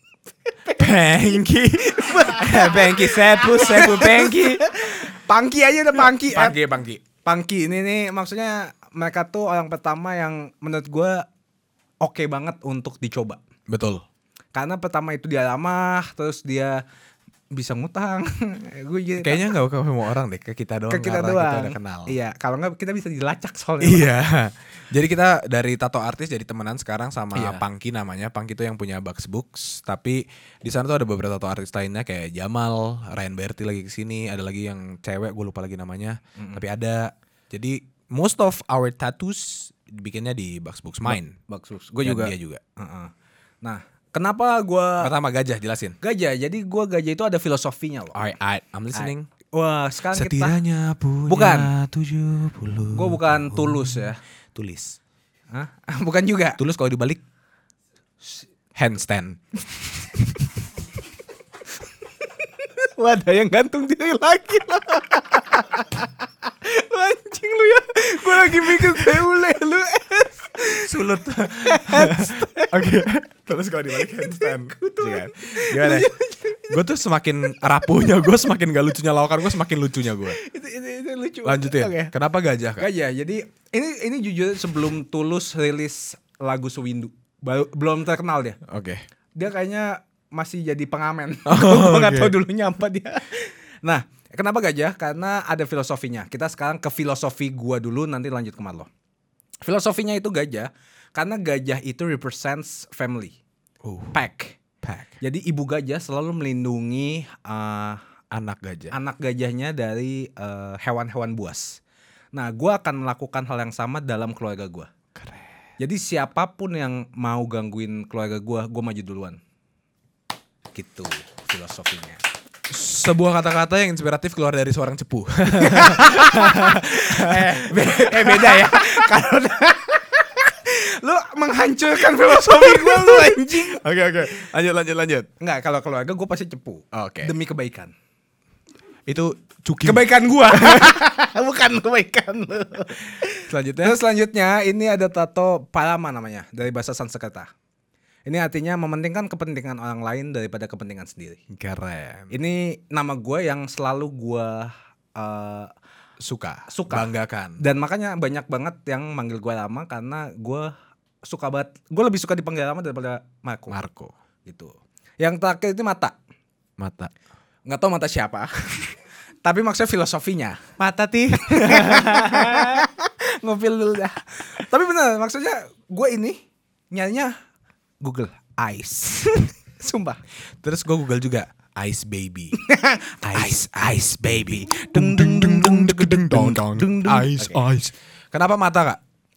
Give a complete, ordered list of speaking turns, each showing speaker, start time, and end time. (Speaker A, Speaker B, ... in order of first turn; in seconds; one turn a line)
Speaker A: 0.5-6.6
Speaker B: 0.7-4.7
Speaker B: 5.9-7.0
Speaker A: 7.2-11.2
Speaker A: 12.0-13.4
Speaker B: 13.7-14.0
Speaker A: 14.5-16.8
Speaker A: 17.5-19.5
Speaker B: 19.2-22.1
Speaker A: 20.9-24.1
Speaker B: 23.8-41.4
Speaker A: 27.4-27.6
Speaker A: 36.4-36.6
Speaker A: 41.0-43.1
Speaker B: 42.0-42.6
Speaker A: 43.6-45.1
Speaker B: 45.0-46.0
Speaker A: 46.0-48.2
Speaker B: 48.1-49.3
Speaker A: 48.9-50.6
Speaker B: 50.1-55.0
Speaker A: 51.3-51.7
Speaker A: 52.9-54.2
Speaker A: 55.5-56.6
Speaker B: 56.6-57.2
Speaker B: 58.7-60.3
Speaker A: 62.2-72.8
Speaker B: 68.5-69.3
Speaker B: 70.7-76.1
Speaker A: 74.0-76.8
Speaker B: 76.7-80.4
Speaker A: 80.3-82.1
Speaker B: 81.4-82.9
Speaker A: 82.8-88.6
Speaker B: 88.7-89.0
Speaker A: 89.4-98.9
Speaker B: 91.5-92.4
Speaker A: 99.6-103.4
Speaker B: 103.8-104.2
Speaker A: 104.1-104.6
Speaker B: 104.8-105.2
Speaker A: 105.2-108.0
Speaker B: 108.3-108.9
Speaker A: 108.9-111.8
Speaker A: 112.3-114.9
Speaker B: 115.2-115.5
Speaker A: 115.8-119.4
Speaker A: 120.7-122.2
Speaker B: 122.7-129.1
Speaker A: 125.5-133.8
Speaker B: 132.3-135.3
Speaker A: 135.4-137.9
Speaker B: 136.9-137.3
Speaker B: 139.1-140.9
Speaker A: 139.8-147.5
Speaker B: 143.4-144.0
Speaker A: 148.2-151.4
Speaker B: 151.5-152.3
Speaker A: 152.3-155.7
Speaker B: 156.2-157.6
Speaker A: 156.7-160.7
Speaker A: 161.2-163.8
Speaker B: 163.7-164.1
Speaker A: 164.4-166.1
Speaker B: 166.8-167.1
Speaker A: 167.7-170.7
Speaker B: 170.8-172.9
Speaker A: 171.4-177.3
Speaker A: 178.0-180.2
Speaker B: 180.6-182.6
Speaker A: 182.5-187.6
Speaker B: 183.3-189.0